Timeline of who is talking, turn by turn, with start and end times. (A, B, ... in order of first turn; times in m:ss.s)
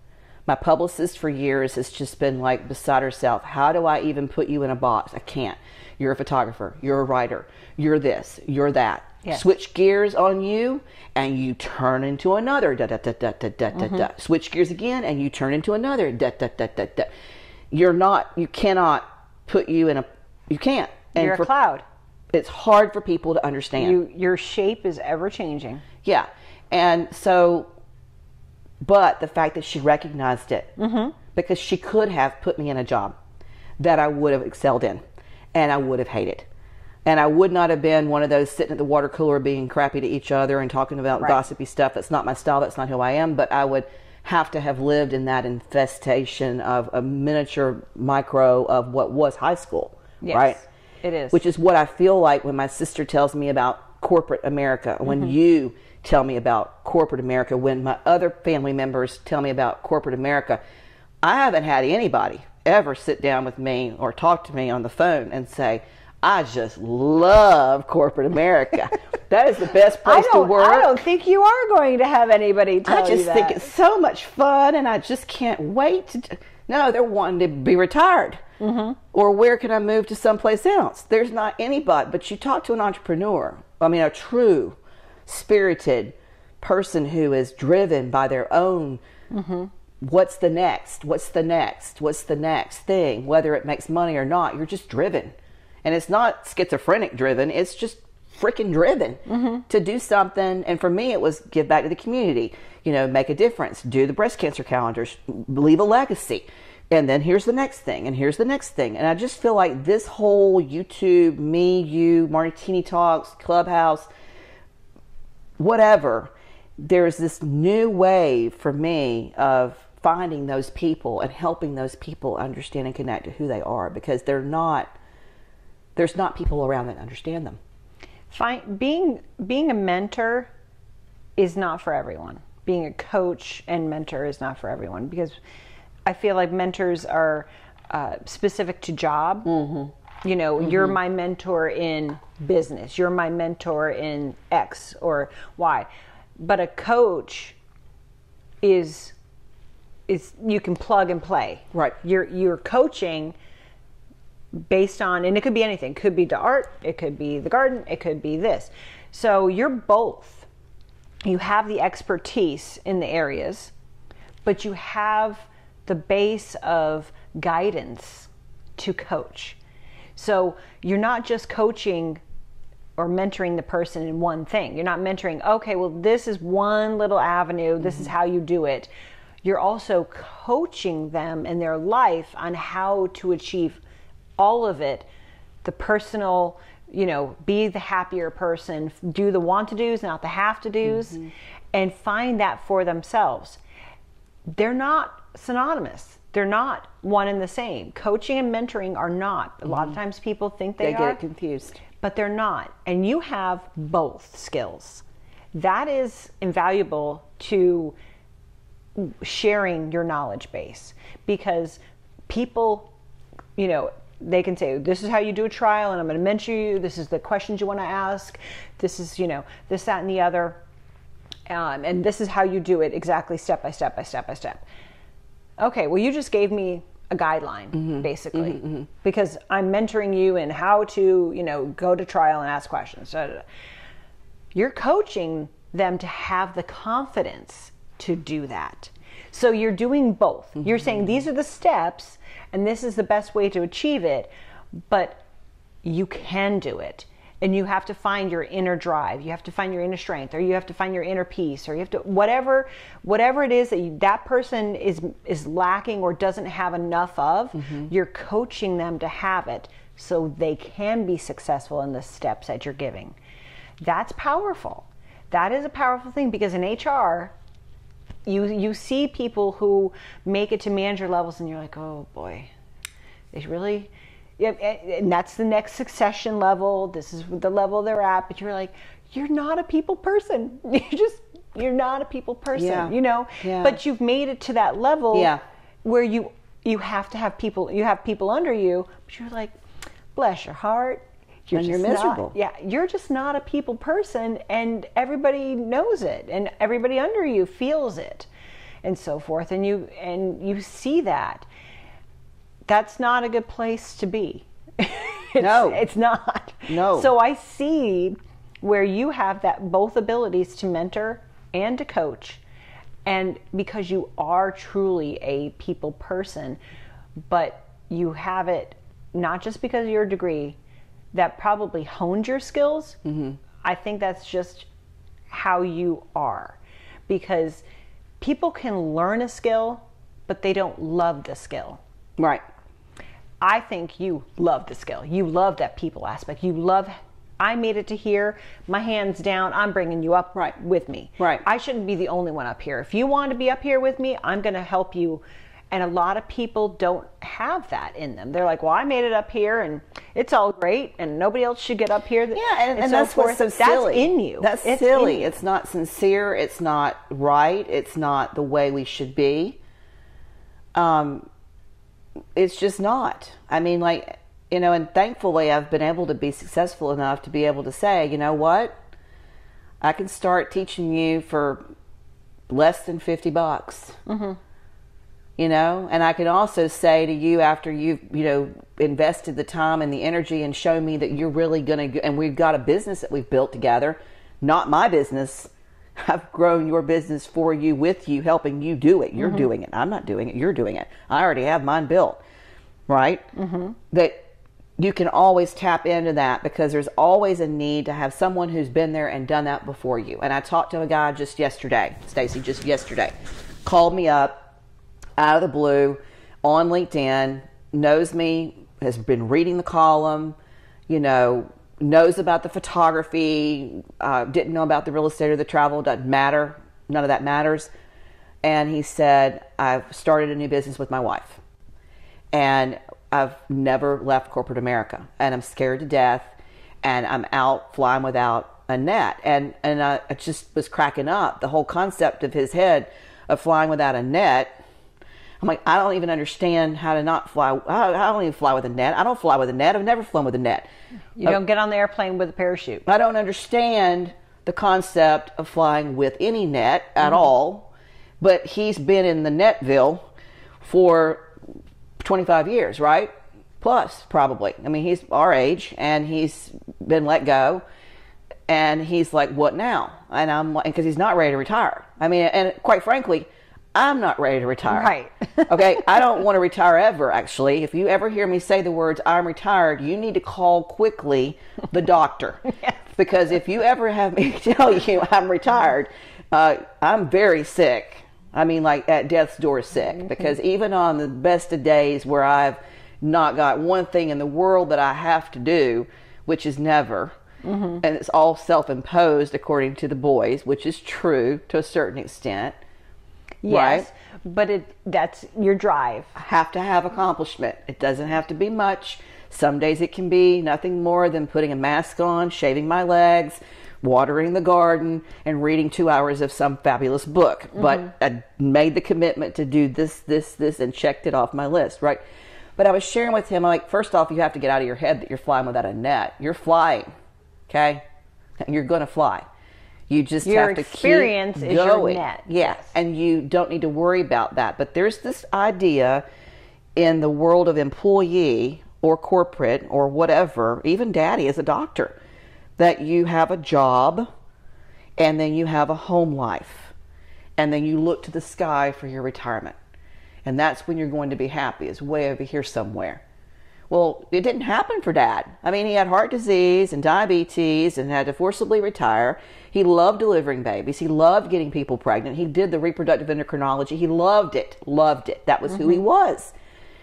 0:00.5-0:17.1 A
0:13.8-0:14.0 B
0:17.7-0:21.5 A
0:21.2-0:21.8 B
0:22.3-0:24.0 A
0:23.8-0:25.8 B
0:26.0-0:27.7 A
0:28.8-0:30.7 A
0:30.8-0:31.2 B
0:31.3-0:33.2 A
0:33.8-0:35.0 A
0:35.6-0:36.5 A
0:37.1-0:50.6 A
0:50.2-0:51.4 B
0:51.3-1:00.6 A
1:01.2-1:11.0 A
1:10.0-1:13.7 B
1:12.9-1:18.4 A
1:18.6-1:19.0 B
1:19.1-1:29.0 A
1:29.3-1:29.7 B
1:30.0-1:35.3 A
1:35.8-1:54.1 A
1:39.3-1:39.6 B
1:55.6-2:04.9 A
2:06.0-2:07.6 A
2:08.3-2:10.5 B
2:11.4-2:15.4 B
2:16.1-2:19.6 B
2:19.6-2:19.8 A
2:20.2-2:27.6 B
2:28.6-2:29.2 B
2:30.1-2:33.4 B
2:34.5-2:40.5 B
2:41.2-2:43.7 B
2:44.4-2:49.6 B
2:50.2-2:52.2 B
2:53.0-2:58.9 B
2:59.4-3:03.8 B
3:04.4-3:05.1 B
3:05.6-3:11.2 B
3:11.7-3:13.6 B
3:14.5-3:21.2 B
3:20.8-3:21.8 A
3:22.0-3:28.0 B
3:29.0-3:32.9 B
3:33.6-3:40.6 B
3:41.5-3:44.6 B
3:45.6-3:53.4 B
3:47.7-3:48.9 A
3:54.5-4:04.3 B
4:04.9-4:05.2 B
4:05.8-4:23.2 B
4:17.6-4:17.9 A
4:23.8-4:27.3 B
4:28.2-4:32.5 B
4:33.3-4:45.3 B
4:42.6-4:43.8 A
4:45.1-4:45.4 A
4:45.8-4:49.6 B
4:50.2-4:58.3 B
4:51.5-4:52.4 A
4:58.8-5:01.5 B
5:02.7-5:12.4 B
5:05.4-5:05.8 A
5:06.7-5:07.1 A
5:13.0-5:16.6 B
5:17.3-5:20.6 B
5:21.1-5:23.0 B
5:23.0-5:23.4 A
5:23.6-5:24.7 B
5:25.3-5:27.6 B
5:28.2-5:31.8 B
5:32.2-5:32.4 A
5:33.4-5:55.4 B
5:41.2-5:41.4 A
5:52.4-5:59.6 A
6:00.8-6:01.3 A
6:02.4-6:08.8 A
6:09.8-6:11.6 A
6:12.5-6:14.0 A
6:14.1-6:14.4 B
6:15.4-6:32.2 A
6:29.2-6:29.5 B
6:32.9-6:33.3 A
6:33.3-6:33.8 B
6:33.9-6:34.2 A
6:34.8-6:43.1 A
6:43.6-6:44.4 A
6:45.2-6:50.4 A
6:50.9-6:57.7 A
6:58.4-7:01.4 A
7:02.3-7:14.5 A
7:15.4-7:20.7 A
7:21.2-7:22.8 B
7:22.9-7:27.7 A
7:28.2-7:30.1 A
7:30.6-7:31.3 A
7:32.0-7:37.6 A
7:38.5-7:44.9 A
7:44.7-7:46.0 B
7:45.4-8:07.2 A
8:07.4-8:07.8 B
8:07.8-8:12.6 A
8:13.4-8:16.1 B
8:13.5-8:13.9 A
8:16.2-8:32.0 A
8:32.6-8:36.9 A
8:37.5-8:37.8 A
8:38.4-8:39.2 A
8:39.9-8:46.0 A
8:40.2-8:42.7 B
8:46.8-8:52.0 A
8:52.6-8:54.1 A
8:55.0-8:56.7 A
8:57.4-8:59.6 A
9:00.2-9:03.0 A
9:03.7-9:16.3 A